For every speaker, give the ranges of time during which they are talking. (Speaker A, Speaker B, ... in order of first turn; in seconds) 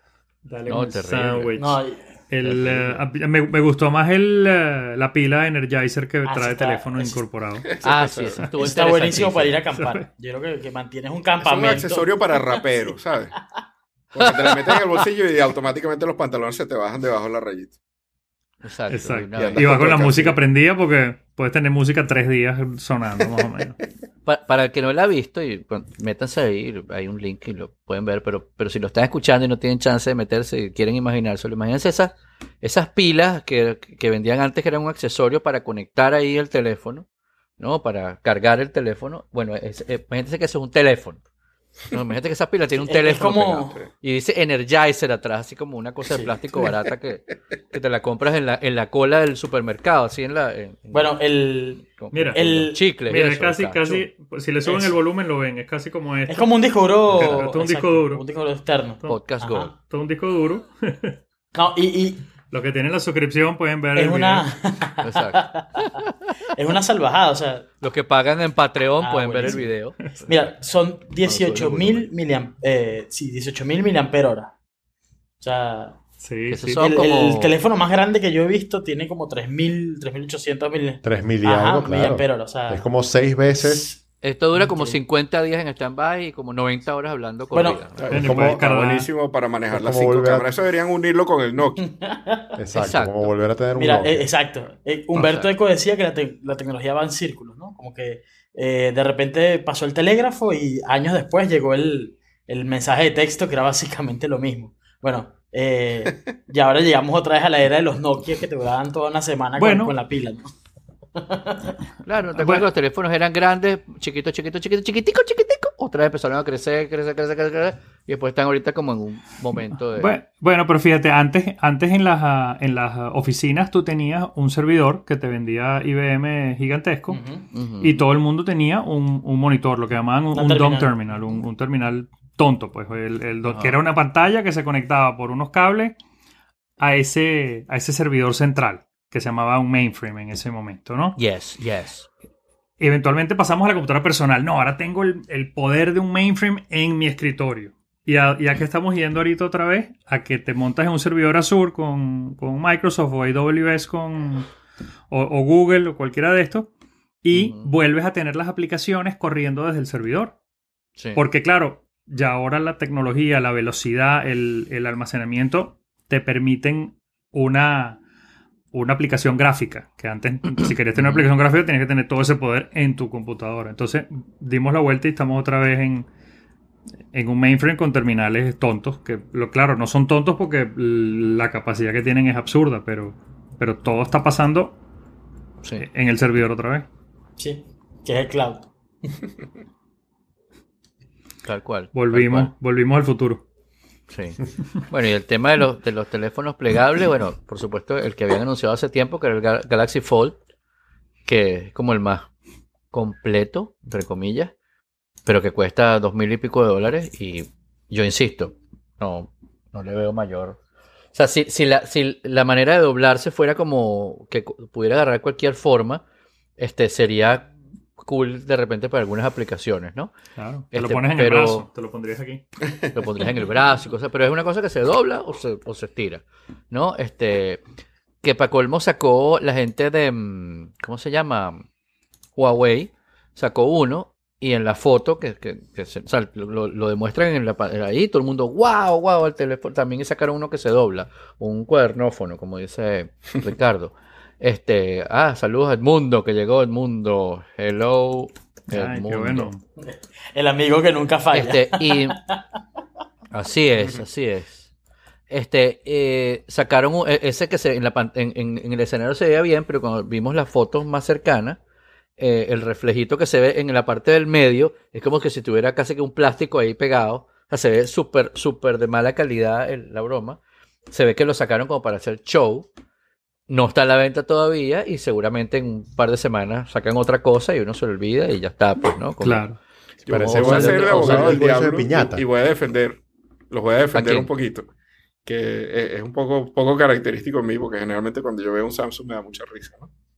Speaker A: 0.5-7.7, 9.7-10.0, 18.9-23.8, 52.1-52.4, 53.1-56.5, 57.1-58.2, 59.8-61.2, 62.5-64.5, 76.2-76.8, 88.1-89.1, 109.6-110.0, 112.4-112.7, 119.5-127.2, 127.8-136.0, 136.8-141.2, 142.8-154.5, 155.1-156.7, 157.2-160.3, 161.1-168.0, 168.7-176.1, 177.1-184.8, 185.8-186.9, 191.9-193.4, 220.4-222.4, 248.7-249.6, 279.2-279.6
Speaker B: 0.7-1.6, 2.5-3.0, 7.8-9.6, 18.6-19.8, 24.3-37.1, 37.6-41.2, 41.9-51.1, 52.0-54.1, 59.1-59.7, 65.0-66.1, 67.8-70.3, 71.2-72.1, 76.5-77.6, 84.2-88.1, 92.7-93.3, 95.2-95.5, 112.0-120.1, 127.5-128.0, 133.5-133.8, 141.2-142.1, 157.3-157.7, 161.0-161.2, 171.0-171.3, 191.4-192.5, 194.1-200.4, 201.3-202.3, 202.9-204.5, 205.3-210.6, 211.1-216.0, 216.6-220.1, 220.7-221.7, 222.9-227.6, 228.2-231.6, 232.4-249.5, 251.3-252.2, 253.3-254.7, 255.3-261.6, 262.2-270.4, 270.9-272.7, 273.5-279.4, 280.1-281.4, 283.9-284.3
Speaker C: 1.6-2.1, 6.3-7.2, 8.6-12.9, 42.9-43.8, 46.0-46.3, 50.9-52.8, 54.7-54.9, 56.3-59.7, 61.5-62.3, 64.0-65.9, 66.5-67.7, 69.0-69.7, 70.3-74.5, 75.4-76.0, 76.8-82.8, 83.6-84.0, 87.5-87.8, 91.8-92.6, 93.8-110.5, 111.2-111.8, 127.1-127.5, 130.3-130.9, 187.4-189.2, 249.8-252.4
Speaker D: 7.7-8.5, 11.4-13.3, 14.1-17.8, 19.4-20.4, 88.0-91.8, 253.8-254.0, 280.1-284.7, 285.2-289.9
Speaker E: 81.0-83.9, 88.2-88.6, 89.7-90.5, 92.6-94.3, 280.1-282.2